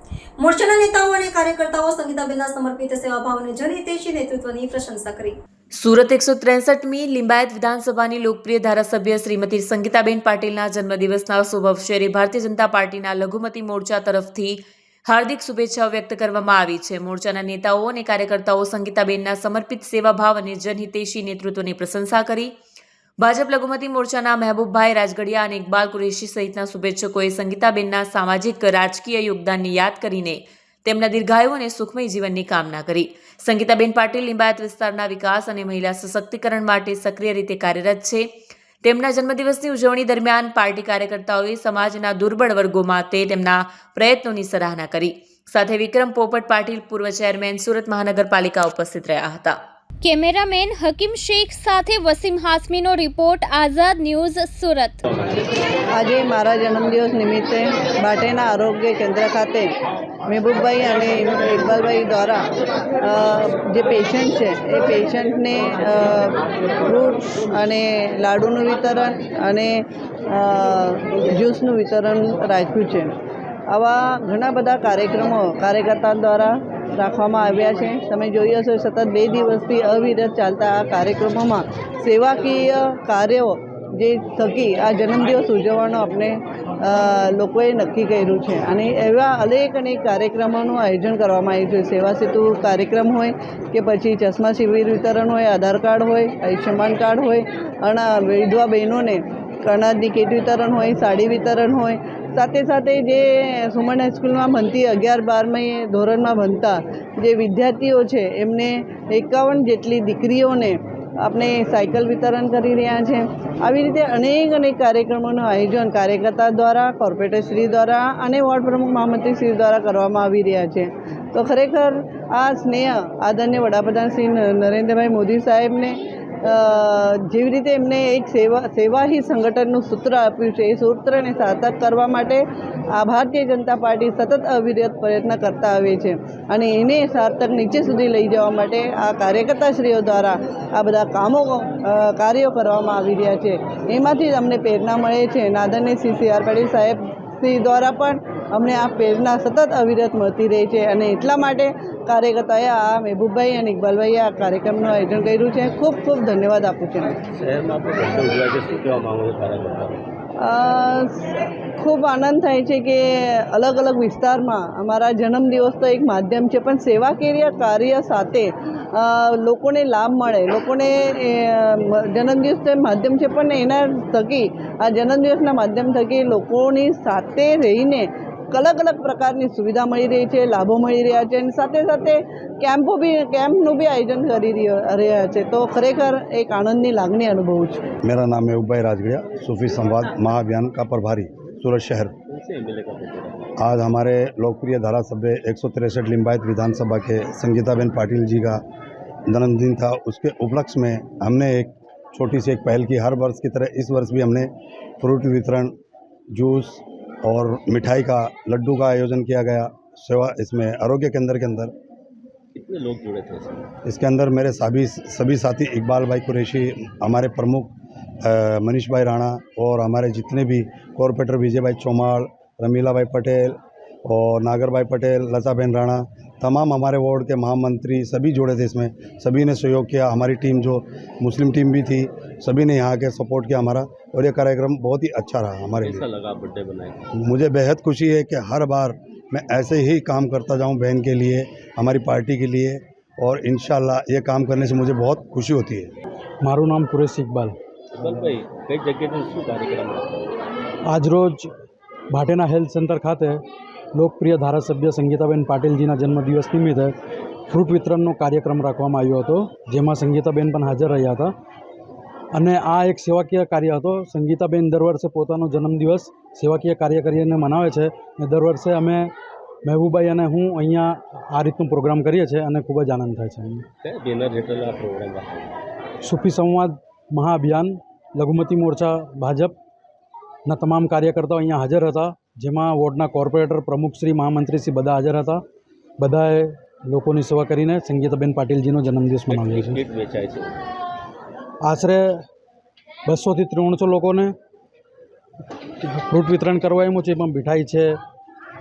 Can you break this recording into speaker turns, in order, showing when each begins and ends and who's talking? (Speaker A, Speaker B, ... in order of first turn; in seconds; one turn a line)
Speaker A: 0.4-5.4
Speaker B: 5.7-22.5
Speaker B: 23.2-38.3
Speaker B: 38.8-49.6
Speaker C: 50.0-55.0
Speaker D: 55.9-59.7
Speaker D: 60.3-62.5
Speaker D: 63.0-73.1
Speaker D: 73.7-157.2
Speaker E: 157.3-160.1
Speaker D: 160.4-187.8
Speaker F: 188.0-192.2
Speaker E: 192.3-193.5
Speaker F: 193.6-198.6
Speaker F: 199.3-205.8
Speaker F: 206.3-211.7
Speaker E: 212.5-213.6
Speaker F: 213.8-236.0
Speaker E: 235.8-237.1
Speaker F: 237.2-245.9
Speaker G: 246.4-247.6
Speaker E: 247.9-250.3
Speaker G: 250.8-251.5
Speaker G: 252.1-253.4
Speaker G: 253.9-256.9
Speaker G: 257.5-261.3
Speaker G: 262.3-269.1
Speaker G: 269.6-273.7
Speaker E: 273.8-275.5
Speaker G: 276.0-279.6
Speaker G: 280.5-285.4
Speaker G: 286.0-289.8
Speaker E: 289.3-290.6
Speaker G: 291.6-292.2
Speaker G: 293.1-294.4
Speaker G: 295.8-298.0